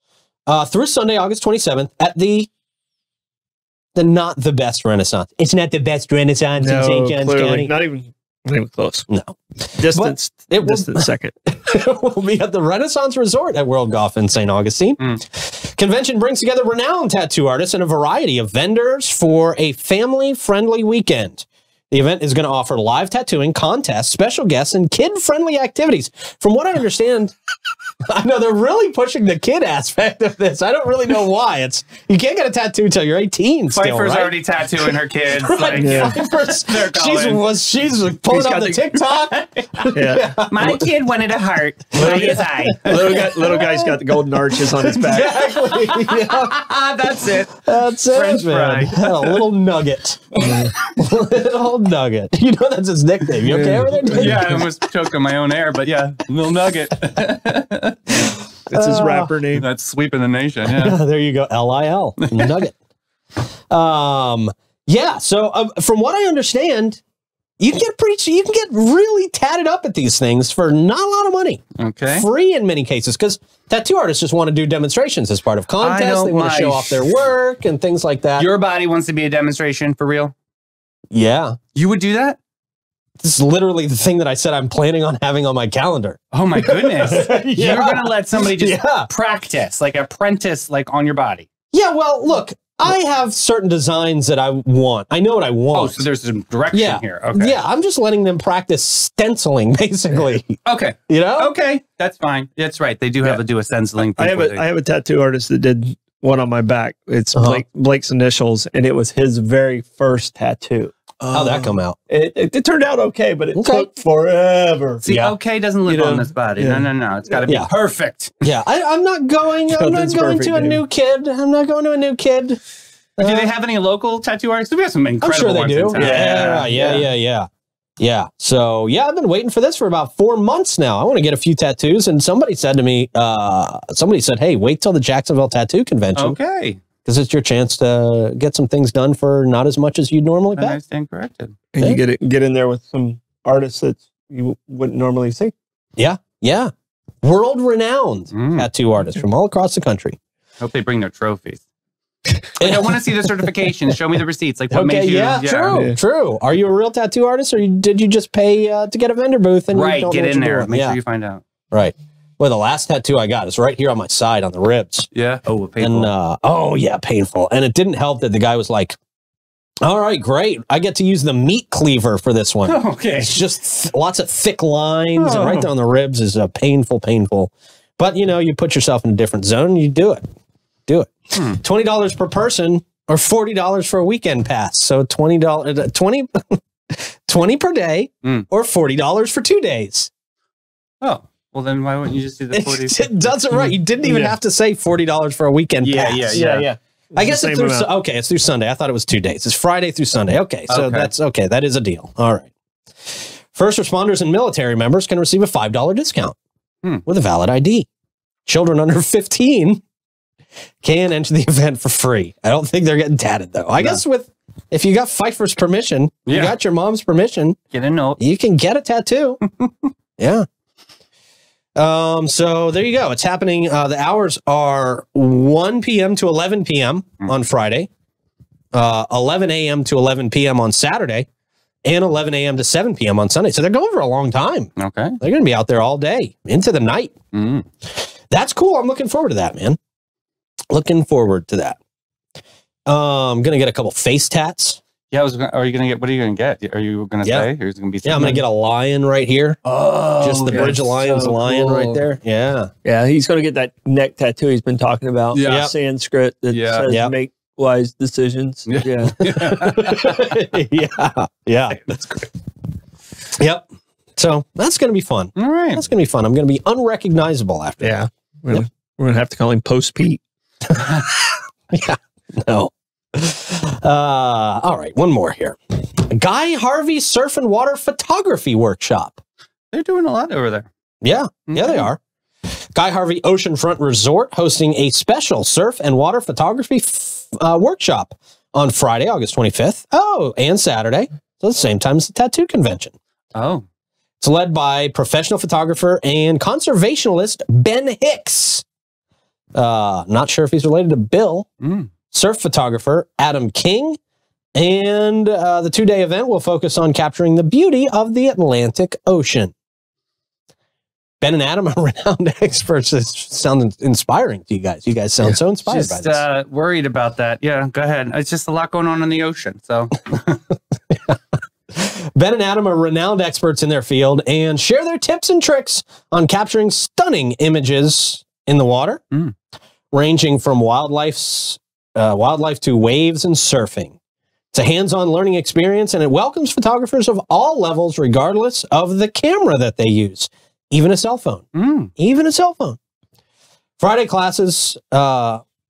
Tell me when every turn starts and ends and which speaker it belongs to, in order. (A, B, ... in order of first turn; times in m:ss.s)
0:00.5-0:02.5 A
0:04.0-0:07.7 A
0:06.6-0:09.1 B
0:09.1-0:27.3 A
0:09.8-0:11.3 B
0:28.1-0:40.8 A
0:33.7-0:37.4 C
0:35.8-0:36.1 B
0:38.3-0:38.8 B
0:39.0-0:39.6 C
0:39.9-0:40.3 B
0:40.5-0:43.2 C
0:42.0-0:46.6 A
0:42.0-0:45.3 B
0:45.7-0:47.6 C
0:47.6-0:54.7 A
0:48.1-0:49.4 C
0:53.5-0:54.6 B
0:54.0-0:58.4 C
0:58.2-0:59.3 A
0:58.7-0:59.7 B
0:59.5-1:01.0 C
1:00.7-1:02.8 A
1:02.2-1:02.6 C
1:03.7-1:07.0 A
1:07.6-1:18.5 A
1:11.8-1:12.3 C
1:15.8-1:17.1 C
1:18.4-1:20.3 C
1:21.1-1:21.6 A
1:21.8-1:22.4 C
1:23.2-1:29.1 A
1:26.3-1:31.5 C
1:31.7-1:36.0 A
1:35.7-1:37.6 C
1:36.7-1:41.5 A
1:40.6-1:44.6 C
1:44.0-1:55.1 B
1:47.3-1:47.6 A
1:51.3-1:52.0 A
1:53.5-1:53.9 A
1:55.0-1:58.4 C
1:55.1-1:55.4 A
1:55.8-1:57.5 B
1:58.4-2:02.6 A
1:59.7-2:00.8 B
2:03.2-2:03.5 A
2:03.2-2:06.7 C
2:05.2-2:07.5 A
2:06.0-2:07.1 B
2:08.0-2:16.4 A
2:16.2-2:16.8 C
2:17.0-2:20.8 A
2:20.6-2:21.6 C
2:21.7-2:25.5 B
2:26.0-2:30.2 A
2:28.3-2:28.7 C
2:30.6-2:31.6 C
2:32.6-2:33.2 A
2:32.6-2:35.8 C
2:34.7-2:41.0 A
2:35.7-2:36.0 B
2:39.7-2:41.4 C
2:41.7-2:45.1 A
2:45.1-2:46.1 C
2:45.8-2:49.0 A
2:49.8-3:00.2 A
2:52.6-2:53.4 C
2:55.2-2:55.7 C
3:00.9-3:10.1 A
3:01.4-3:01.6 C
3:11.0-3:13.4 C
3:12.5-3:16.5 A
3:13.5-3:14.4 B
3:15.8-3:16.7 C
3:16.3-3:17.9 B
3:17.2-3:22.5 A
3:20.7-3:21.1 C
3:23.0-3:26.4 A
3:27.0-3:27.9 A
3:28.5-3:29.8 A
3:30.8-3:37.6 A
3:36.3-3:36.6 C
3:37.7-3:38.2 C
3:38.2-3:39.4 A
3:40.2-3:40.5 A
3:41.8-3:47.9 A
3:48.7-3:51.3 A
3:51.8-3:57.1 A
3:54.8-3:55.2 C
3:57.3-3:57.6 C
3:58.0-3:59.8 A
4:00.7-4:01.8 A
4:02.9-4:04.8 A
4:05.1-4:08.4 C
4:07.2-4:07.5 A
4:08.0-4:09.6 A
4:09.7-4:12.0 B
4:10.2-4:12.7 A
4:10.2-4:10.8 C
4:12.8-4:19.2 B
4:15.3-4:15.7 C
4:15.4-4:15.7 A
4:16.5-4:16.9 C
4:16.9-4:17.2 A
4:18.7-4:20.2 C
4:19.2-4:22.2 A
4:23.4-4:23.6 A
4:24.2-4:28.0 A
4:25.4-4:25.8 C
4:27.8-4:30.2 B
4:30.7-4:39.2 A
4:39.7-4:40.7 C
4:41.0-4:42.0 A
4:41.5-4:41.9 C
4:42.7-4:52.9 A
4:53.4-4:53.6 C
4:54.2-4:58.6 A
4:59.6-5:01.5 A
5:01.6-5:01.9 C
5:02.1-5:04.0 A
5:04.6-5:09.5 A
5:11.2-5:16.2 A
5:15.6-5:20.4 C
5:20.9-5:21.2 A
5:21.7-5:29.0 A
5:29.9-5:34.0 A
5:34.5-5:41.5 A
5:41.6-5:41.9 C
5:42.0-5:42.8 A
5:43.8-5:45.4 A